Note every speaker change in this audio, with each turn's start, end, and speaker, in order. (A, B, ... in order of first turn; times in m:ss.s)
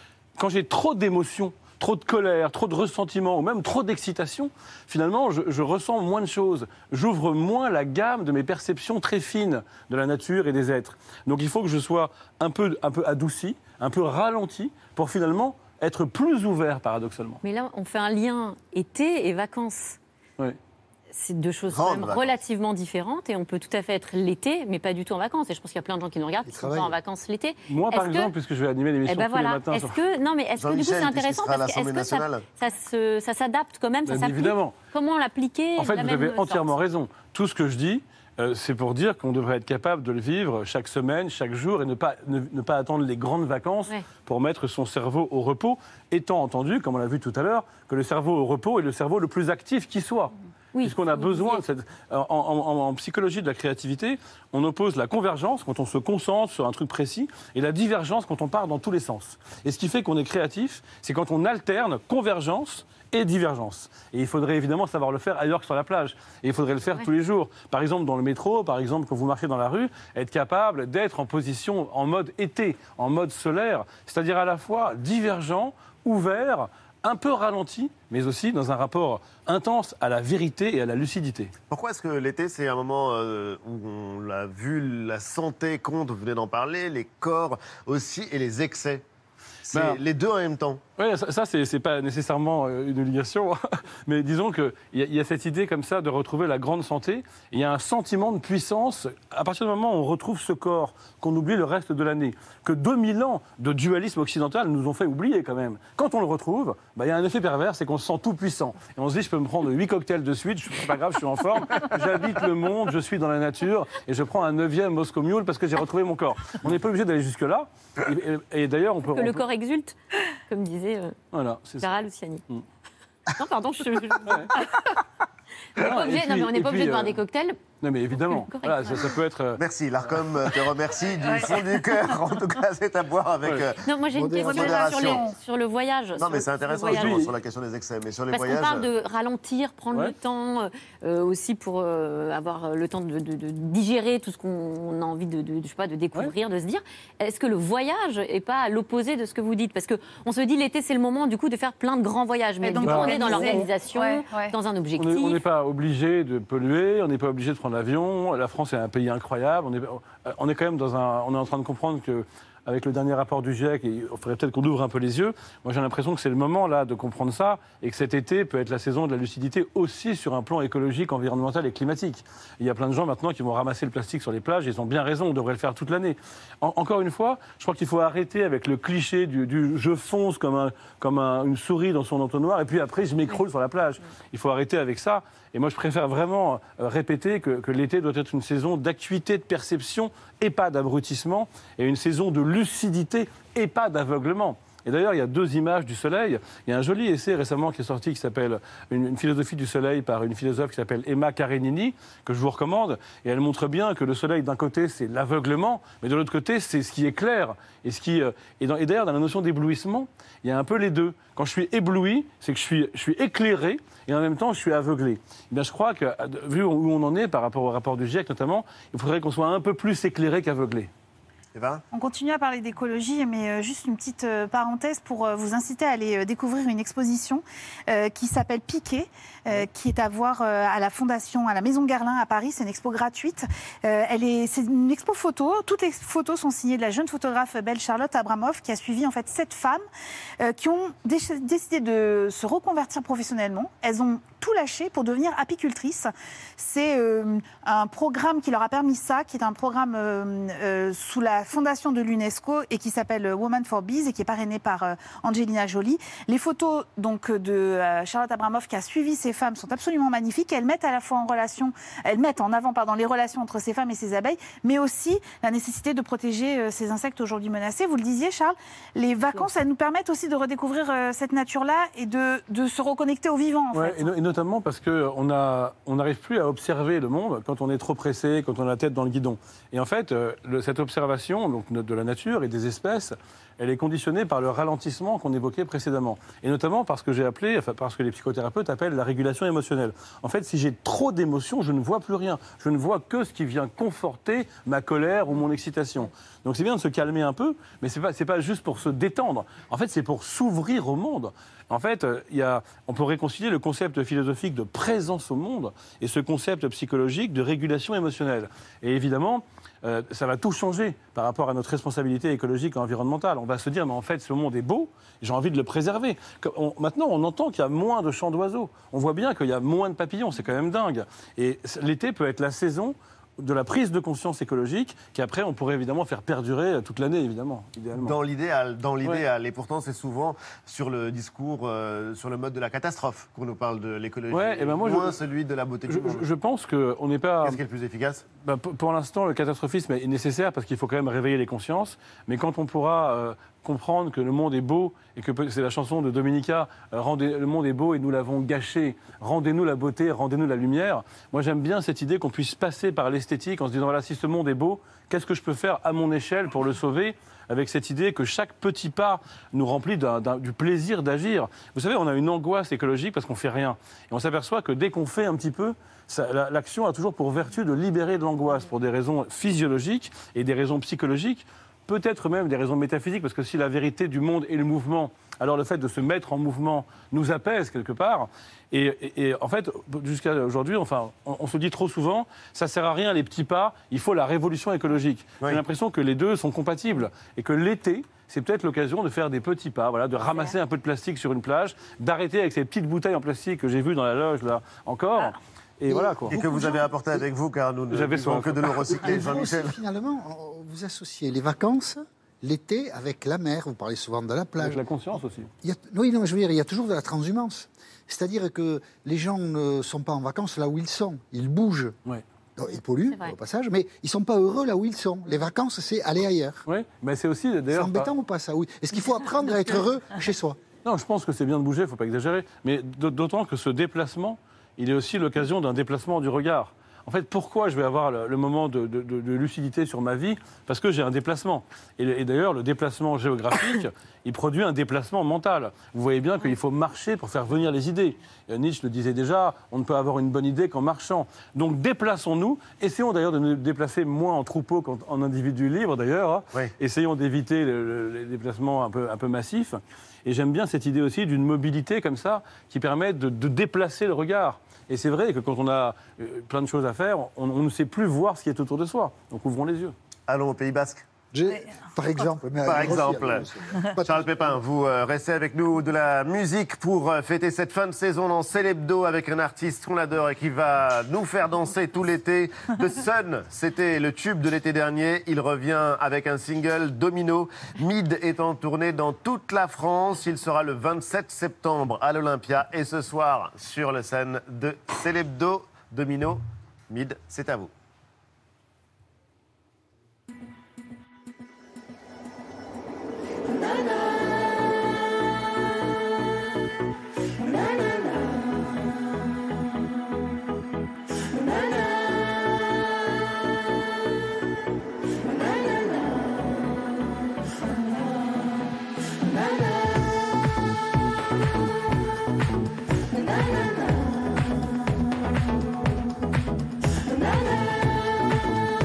0:00.4-0:17.4 A
0:17.4-0:20.0 B
0:21.1-0:28.3 B
0:21.7-0:22.4 C
0:26.4-0:27.0 D
0:27.7-0:30.0 A
0:29.1-0:36.8 B
0:30.6-0:32.4 C
0:34.1-0:34.8 A
0:35.8-1:21.5 A
0:50.7-0:51.6 B
1:21.7-1:29.0 C
1:29.7-1:30.8 C
1:29.7-1:30.0 A
1:31.0-1:59.4 A
1:59.1-2:00.0 B
2:00.5-2:01.2 B
2:01.3-2:01.9 A
2:01.8-2:02.4 B
2:03.4-2:04.8 B
2:04.2-2:04.5 A
2:05.8-2:07.2 A
2:05.8-2:07.6 B
2:07.8-2:09.6 A
2:08.2-2:09.1 B
2:09.6-2:13.8 C
2:11.3-2:11.6 E
2:13.8-2:17.3 B
2:14.1-2:14.9 D
2:14.4-2:15.4 E
2:14.5-2:15.3 C
2:16.2-2:18.9 C
2:16.9-2:17.3 A
2:18.3-2:35.4 B
2:32.6-2:34.5 E
2:32.8-2:33.7 A
2:35.0-3:40.9 A
3:41.5-3:41.8 C
3:41.9-3:59.8 E
4:00.4-4:34.1 E
4:33.7-5:28.2 A
5:28.0-5:36.3 C
5:34.3-5:35.2 A
5:35.9-5:37.6 A
5:37.4-5:38.2 C
5:38.4-6:36.4 A
6:35.9-6:36.8 D
6:36.3-6:39.8 C
6:37.9-6:38.8 A
6:39.0-6:44.8 D
6:44.6-6:45.5 A
6:45.6-6:52.0 D
6:52.6-6:56.6 D
6:53.0-6:53.4 B
6:56.7-6:58.1 A
6:57.7-7:00.6 D
7:00.8-7:39.9 A
7:40.3-7:41.0 C
7:41.3-7:44.4 D
7:42.6-7:43.5 C
7:44.0-8:07.7 C